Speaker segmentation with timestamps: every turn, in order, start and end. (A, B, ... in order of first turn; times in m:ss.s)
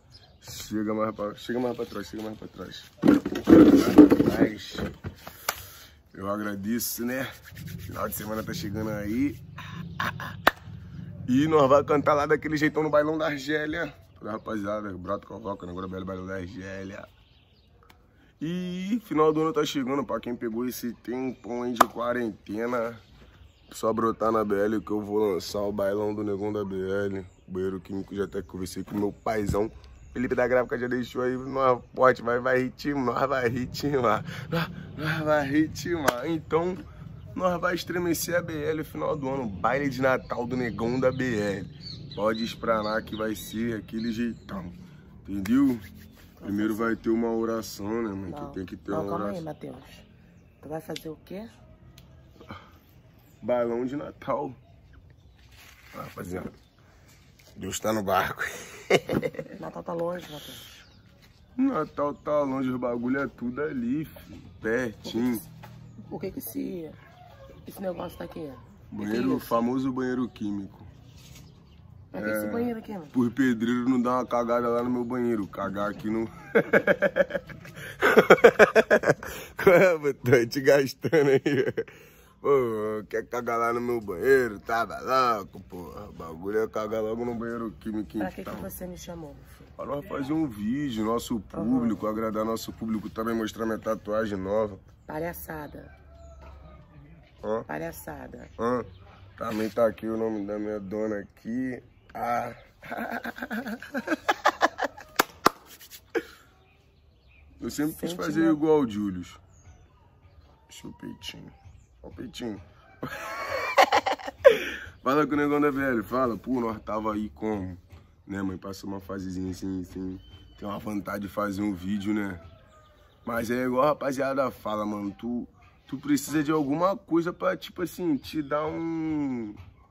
0:00.4-0:02.9 A
0:03.5-0:04.9 A
0:06.1-0:07.3 A
0:07.9-0:09.4 A
0:10.0-0:10.4 A
0:11.3-0:17.1 A
0:18.4-0:23.0 A
0:23.7-0:45.8 A
0:46.4-0:47.0 B
0:46.4-0:49.4 A
0:48.3-0:50.0 B
0:50.6-0:51.5 B
0:53.4-0:54.6 A
0:55.9-0:56.5 A
0:57.6-0:59.3 A
0:59.6-1:00.6 B
1:01.6-1:05.4 A
1:05.0-1:05.4 B
1:06.1-1:07.0 B
1:07.6-1:09.6 B
1:08.9-1:10.9 A
1:12.1-1:13.1 B
1:12.1-1:21.9 A
1:22.4-1:28.7 A
1:28.2-1:29.7 B
1:29.8-1:34.8 A
1:31.5-1:32.1 B
1:35.1-1:35.9 B
1:37.4-1:37.7 A
1:37.7-1:38.5 B
1:38.6-1:44.2 A
1:47.6-1:49.4 A
1:47.9-1:48.6 B
1:50.7-2:02.4 A
2:03.2-2:09.6 A